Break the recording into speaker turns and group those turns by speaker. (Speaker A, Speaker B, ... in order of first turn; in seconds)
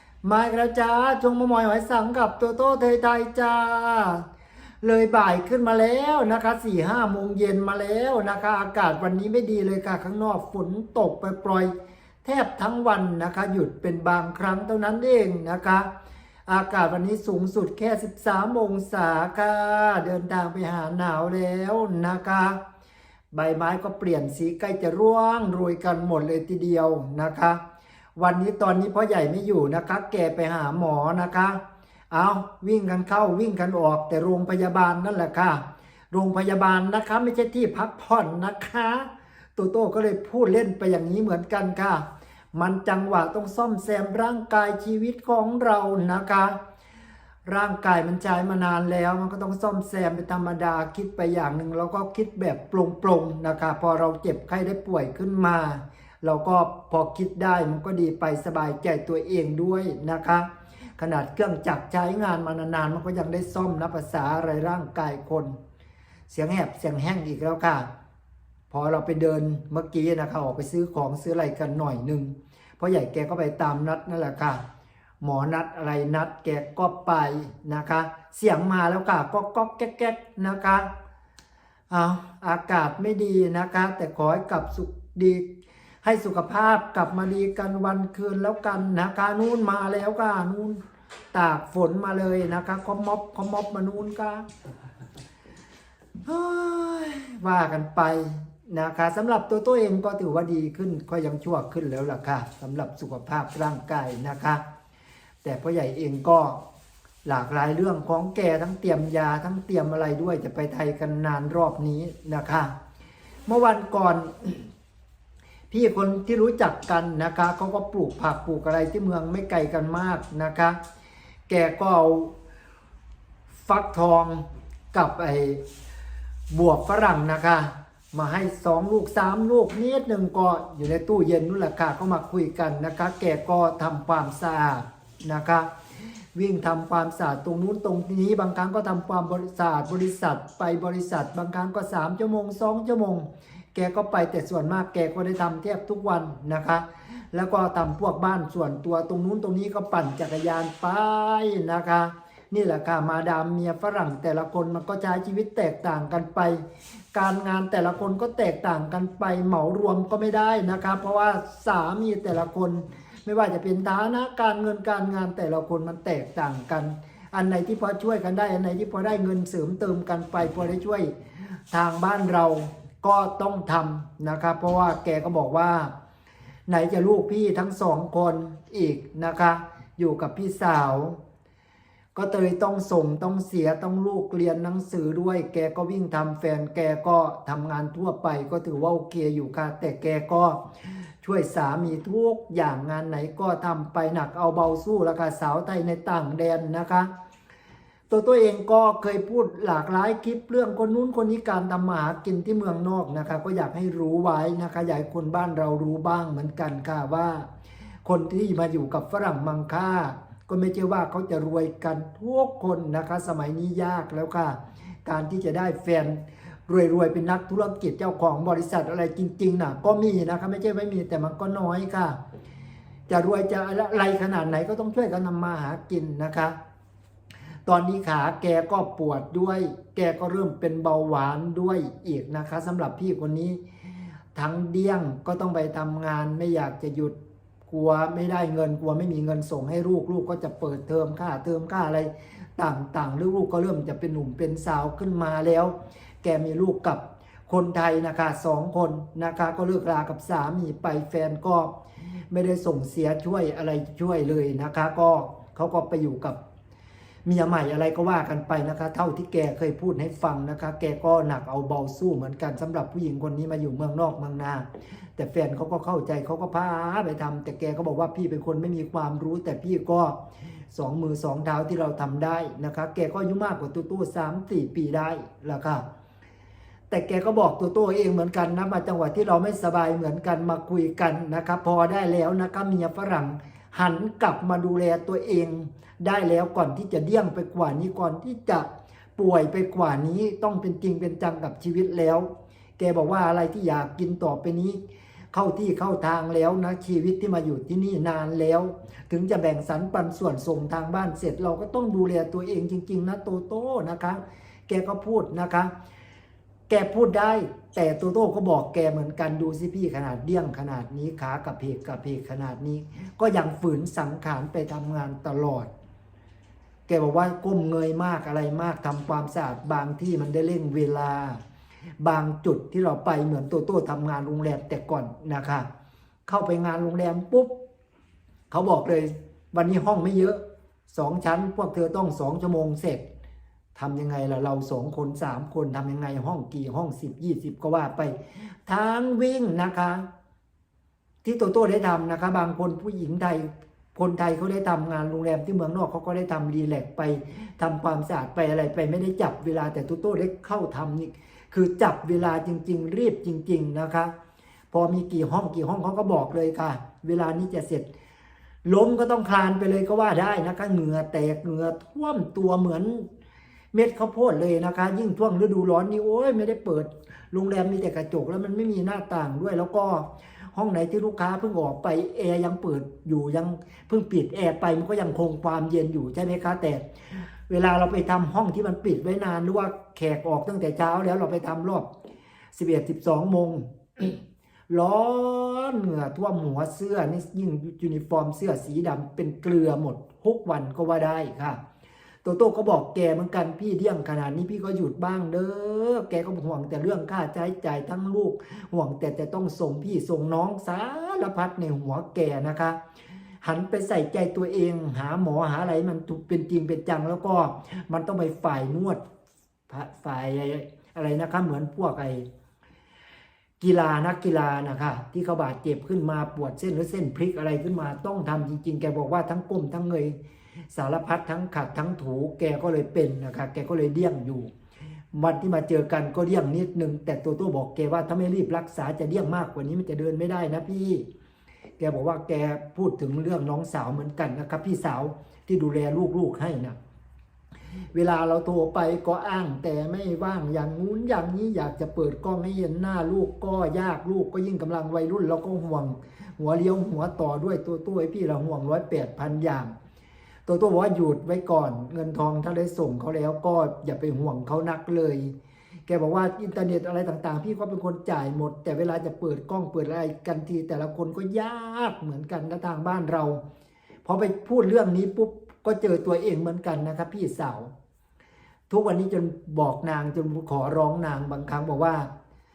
Speaker A: 0.2-4.2, 4.8-15.9, 16.4-22.6, 23.3-27.6, 28.1-46.6, 47.5-65.6, 66.3-67.9, 68.7-74.6, 75.2-80.9, 81.9-85.5, 86.0-90.8, 91.3-94.5, 96.2-104.6, 105.4-106.6, 107.2-112.7, 113.5-114.7, 115.7-120.8, 121.5-122.3, 123.5-125.6, 126.5-135.7, 136.3-175.9, 176.7-181.2, 182.1-190.6, 191.2-197.1, 198.1-207.5, 208.0-222.2, 223.1-226.6, 227.7-233.6, 234.3-237.1, 237.7-251.7, 252.3-256.4, 257.2-270.2, 270.7-275.8, 276.9-294.8, 295.3-305.7, 306.7-315.7, 316.9-321.4, 322.0-325.7, 326.3-327.5, 328.5-333.0, 333.7-340.1, 341.2-354.1, 354.7-357.9, 358.6-363.1, 363.7-376.8, 377.5-381.9, 382.5-391.6, 392.2-402.8, 403.4-409.0, 409.7-412.3, 413.6-420.2, 420.7-424.5, 425.1-431.0, 431.8-436.8, 437.9-449.7, 450.4-455.3, 455.9-463.4, 464.0-467.7, 468.7-472.1